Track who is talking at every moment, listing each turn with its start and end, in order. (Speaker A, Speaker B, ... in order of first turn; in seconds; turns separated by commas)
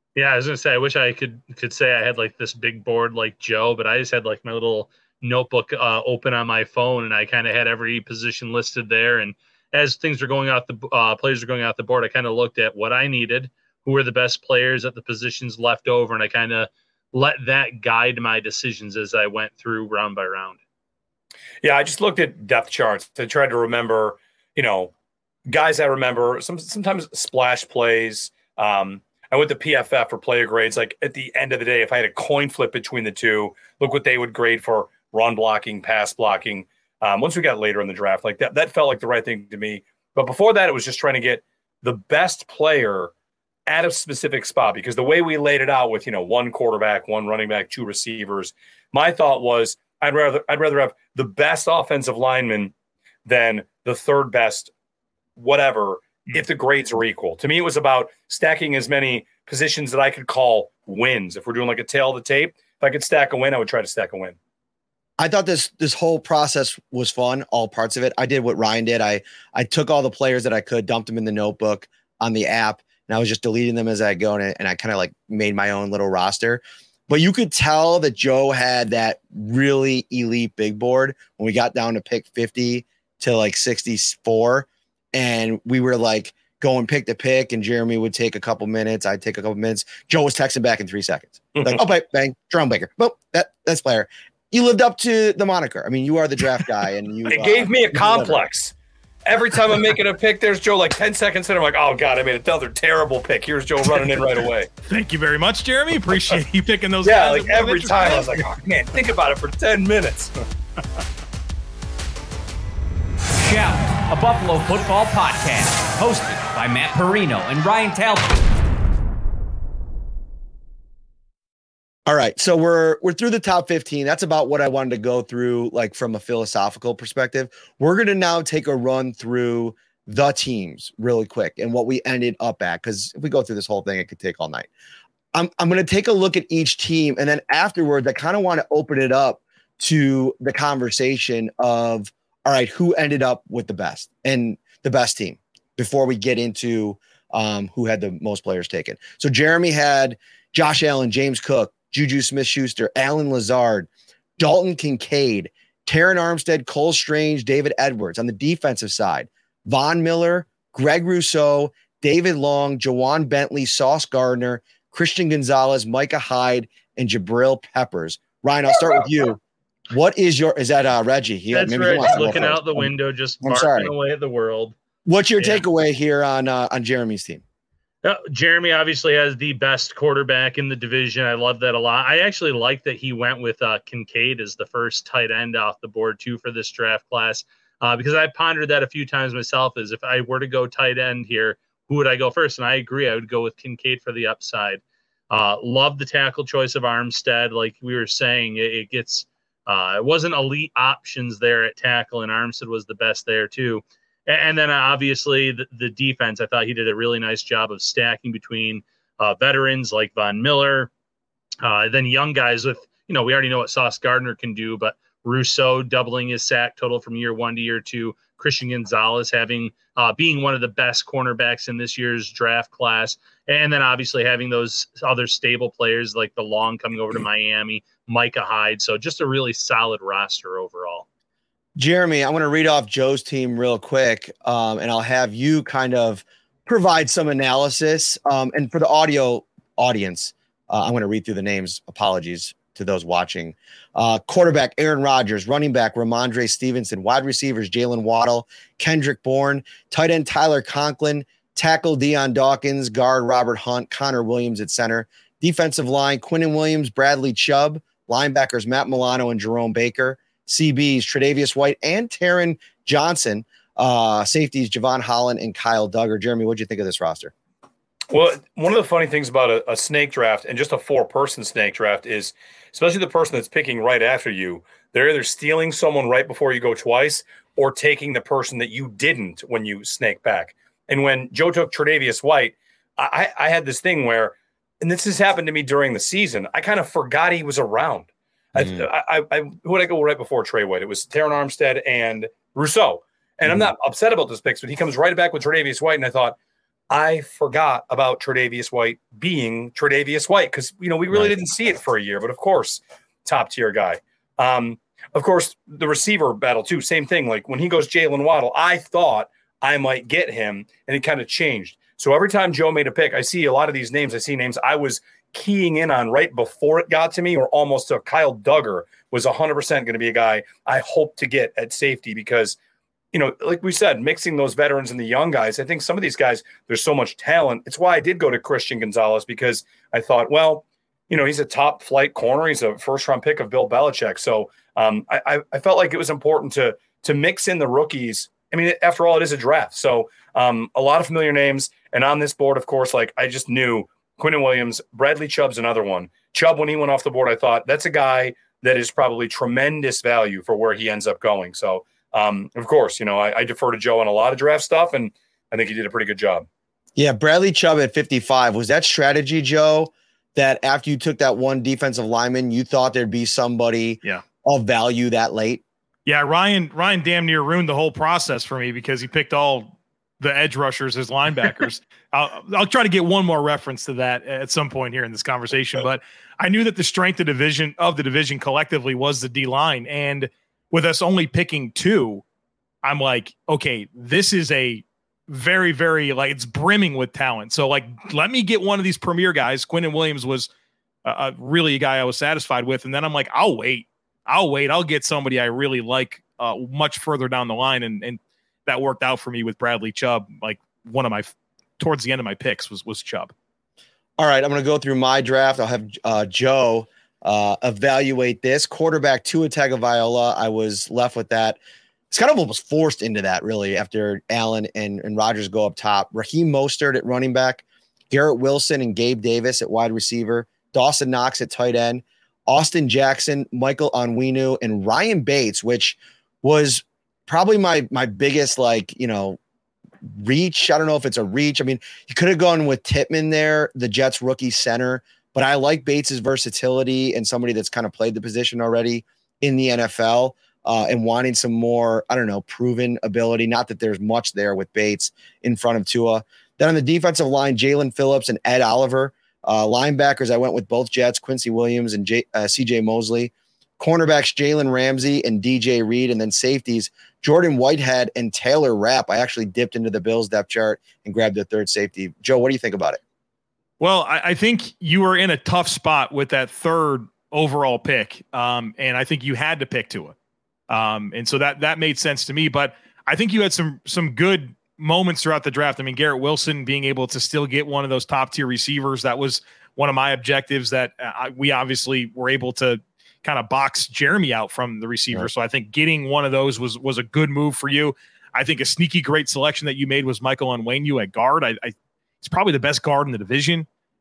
Speaker A: 0.1-20.6, Speaker B: 21.6-24.9, Speaker B: 25.4-43.1, Speaker B: 43.7-52.7, Speaker B: 53.2-54.7, Speaker B: 55.4-64.4, Speaker C: 65.2-98.4, Speaker B: 91.5-91.8, Speaker B: 97.3-98.7, Speaker B: 99.2-104.7, Speaker D: 104.9-108.4, Speaker B: 107.0-110.3, Speaker E: 113.3-118.4, Speaker C: 122.1-134.7, Speaker C: 135.3-173.9, Speaker A: 171.5-174.7, Speaker C: 175.1-177.4, Speaker A: 175.4-175.6, Speaker A: 178.0-210.9, Speaker A: 211.6-231.1, Speaker C: 231.8-267.3, Speaker B: 268.1-296.4, Speaker C: 288.6-288.8, Speaker B: 296.9-322.6, Speaker B: 323.1-356.4, Speaker C: 356.9-365.6, Speaker D: 366.1-382.2, Speaker D: 382.8-390.5, Speaker D: 391.0-403.3, Speaker C: 404.2-411.6, Speaker C: 412.1-429.4, Speaker C: 430.0-463.0, Speaker D: 463.8-470.1, Speaker D: 470.7-493.7